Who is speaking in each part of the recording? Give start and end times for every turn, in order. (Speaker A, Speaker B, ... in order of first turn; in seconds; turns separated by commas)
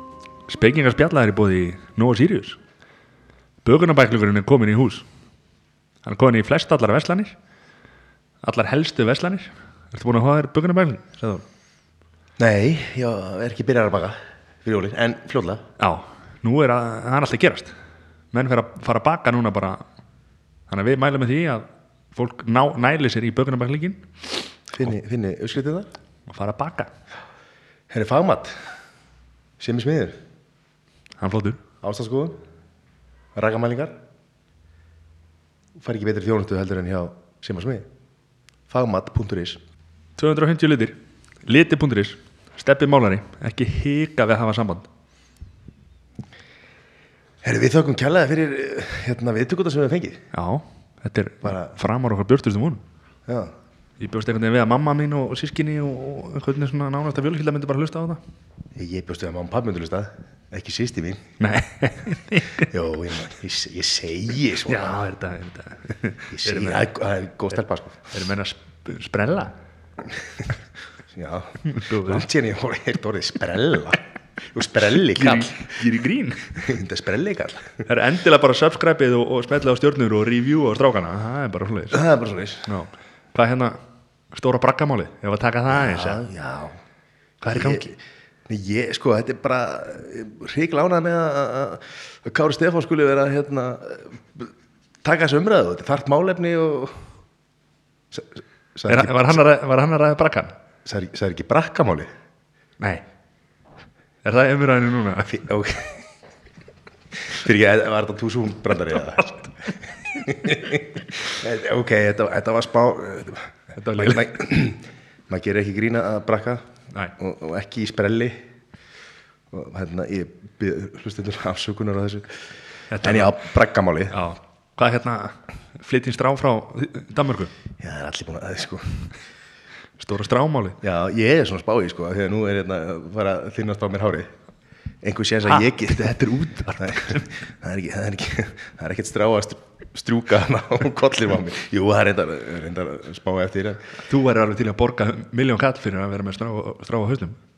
Speaker A: 0.5-2.6, Speaker A: 3.6-5.1, Speaker A: 6.0-7.3, Speaker A: 8.4-11.4, Speaker B: 12.4-15.6, Speaker A: 15.8-17.7, Speaker A: 18.3-19.8, Speaker A: 20.7-24.1, Speaker B: 24.7-25.9, Speaker A: 26.3-26.9, Speaker B: 27.9-28.7, Speaker B: 29.6-30.2, Speaker A: 31.2-31.6, Speaker B: 31.8-32.4, Speaker B: 33.3-34.0, Speaker B: 35.8-37.9, Speaker B: 38.7-39.6, Speaker A: 40.2-44.9, Speaker B: 47.4-50.2, Speaker A: 50.3-52.8, Speaker B: 51.4-51.8, Speaker B: 53.3-53.5, Speaker A: 54.0-58.2, Speaker B: 58.7-61.2, Speaker A: 61.4-62.7, Speaker B: 62.6-65.0, Speaker A: 64.6-66.8, Speaker B: 66.3-68.2, Speaker A: 68.1-69.6, Speaker B: 71.1-75.8, Speaker A: 71.7-72.2, Speaker A: 75.0-76.7, Speaker B: 76.6-77.8, Speaker A: 77.8-82.0, Speaker B: 81.9-82.7, Speaker A: 82.7-83.8, Speaker A: 84.3-86.2, Speaker B: 85.7-86.8, Speaker A: 87.4-87.9, Speaker B: 87.5-87.9, Speaker B: 88.5-94.5, Speaker B: 95.0-97.1, Speaker B: 98.1-99.4, Speaker A: 98.9-100.6, Speaker B: 100.8-102.1, Speaker A: 104.2-105.4, Speaker B: 105.3-106.0, Speaker B: 107.1-118.5, Speaker A: 113.8-114.3, Speaker B: 119.5-124.2, Speaker A: 122.9-123.4, Speaker A: 124.1-127.5, Speaker B: 127.8-129.2, Speaker A: 130.0-130.8, Speaker B: 130.8-134.3, Speaker B: 135.0-136.2, Speaker A: 135.4-137.3, Speaker B: 136.8-144.0, Speaker A: 144.1-147.4